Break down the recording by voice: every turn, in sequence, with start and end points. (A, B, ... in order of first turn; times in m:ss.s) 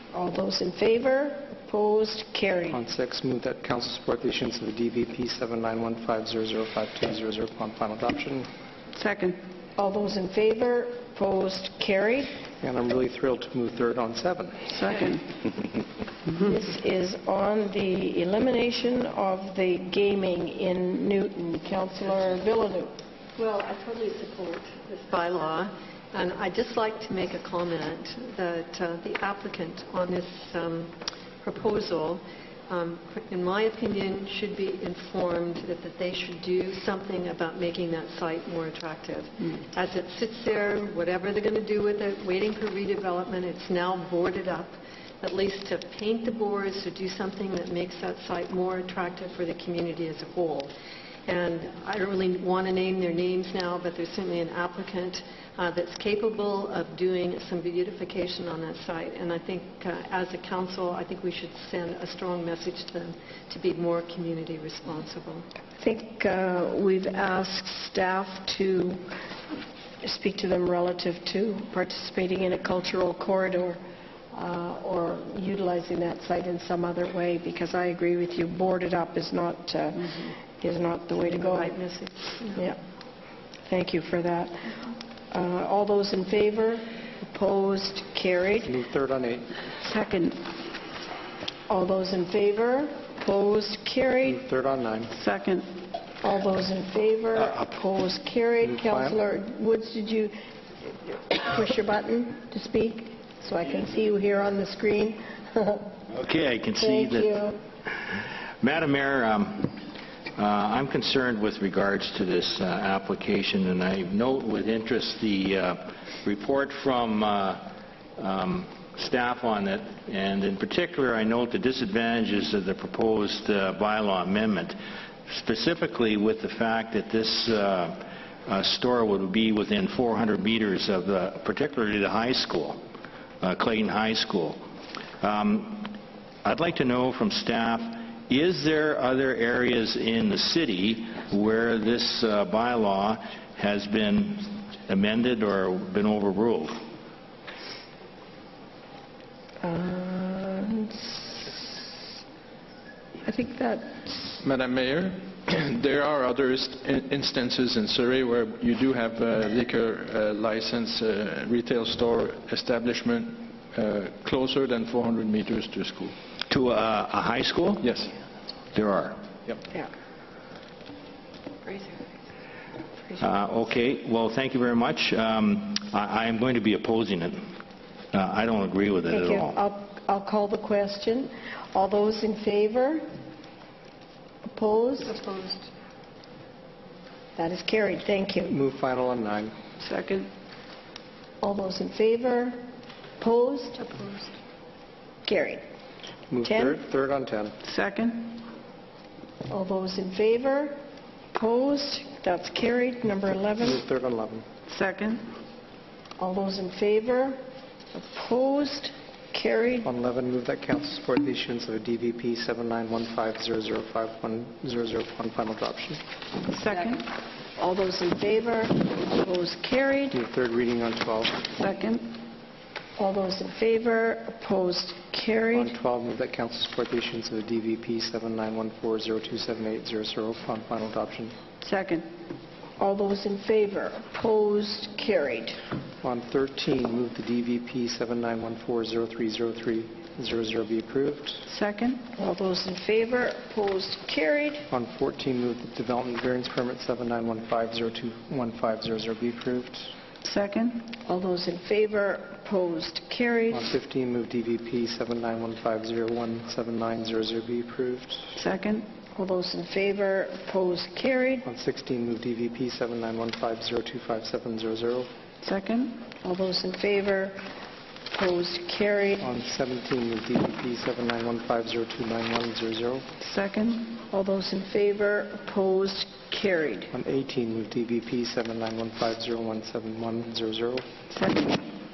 0:00.1-0:02.8 A
0:02.7-0:08.5 B
0:09.0-0:09.4 C
0:09.8-0:12.3 A
0:12.6-0:14.8 B
0:14.7-0:15.2 C
0:16.4-0:22.9 A
0:23.4-0:50.7 D
0:51.3-1:05.4 D
1:05.8-1:09.0 A
1:10.0-1:13.8 A
1:14.3-1:21.7 A
1:21.3-1:22.6 D
1:23.7-1:28.7 A
1:28.6-1:29.5 B
1:29.8-1:30.4 C
1:31.7-1:34.4 A
1:34.2-1:35.2 B
1:35.1-1:35.7 C
1:36.2-1:46.0 A
1:38.6-1:39.2 B
1:46.1-1:47.4 E
1:46.8-1:47.6 A
1:47.9-1:49.8 E
1:50.4-2:04.8 E
2:05.3-2:12.8 E
2:13.4-2:14.6 E
2:15.2-2:26.7 E
2:29.6-2:32.0 A
2:33.2-2:34.4 A
2:34.4-2:46.1 F
2:46.5-2:47.9 E
2:47.8-2:48.1 F
2:48.7-2:49.2 E
2:51.6-2:52.0 D
2:53.2-2:57.5 E
2:58.1-2:59.5 E
2:59.1-3:03.0 A
3:04.4-3:05.1 A
3:05.0-3:05.7 D
3:07.4-3:08.5 A
3:08.5-3:09.5 B
3:09.8-3:10.3 C
3:11.4-3:12.6 A
3:13.2-3:13.8 A
3:13.8-3:14.3 D
3:15.2-3:15.6 A
3:16.3-3:17.6 B
3:16.4-3:16.8 A
3:17.6-3:18.4 C
3:19.5-3:20.8 A
3:21.3-3:23.8 A
3:23.6-3:24.4 B
3:24.7-3:25.3 C
3:26.2-3:27.4 A
3:27.9-3:29.9 A
3:29.8-3:36.0 B
3:36.4-3:37.0 C
3:37.6-3:40.1 A
3:40.1-3:41.4 B
3:41.5-3:42.1 C
3:43.0-3:45.7 A
3:45.5-3:51.3 B
3:51.6-3:52.0 C
3:52.8-3:55.6 A
3:56.0-4:01.5 B
4:01.5-4:02.1 C
4:02.1-4:04.7 A
4:04.7-4:09.9 B
4:10.2-4:10.9 C
4:11.0-4:13.7 A
4:13.5-4:18.4 B
4:18.4-4:18.8 C
4:19.1-4:21.4 A
4:21.4-4:25.1 B
4:25.4-4:26.1 C
4:26.2-4:27.5 A
4:28.1-4:29.3 A
4:29.2-4:33.1 B
4:33.2-4:34.0 C
4:34.1-4:36.9 A
4:36.9-4:40.9 B
4:41.1-4:41.6 C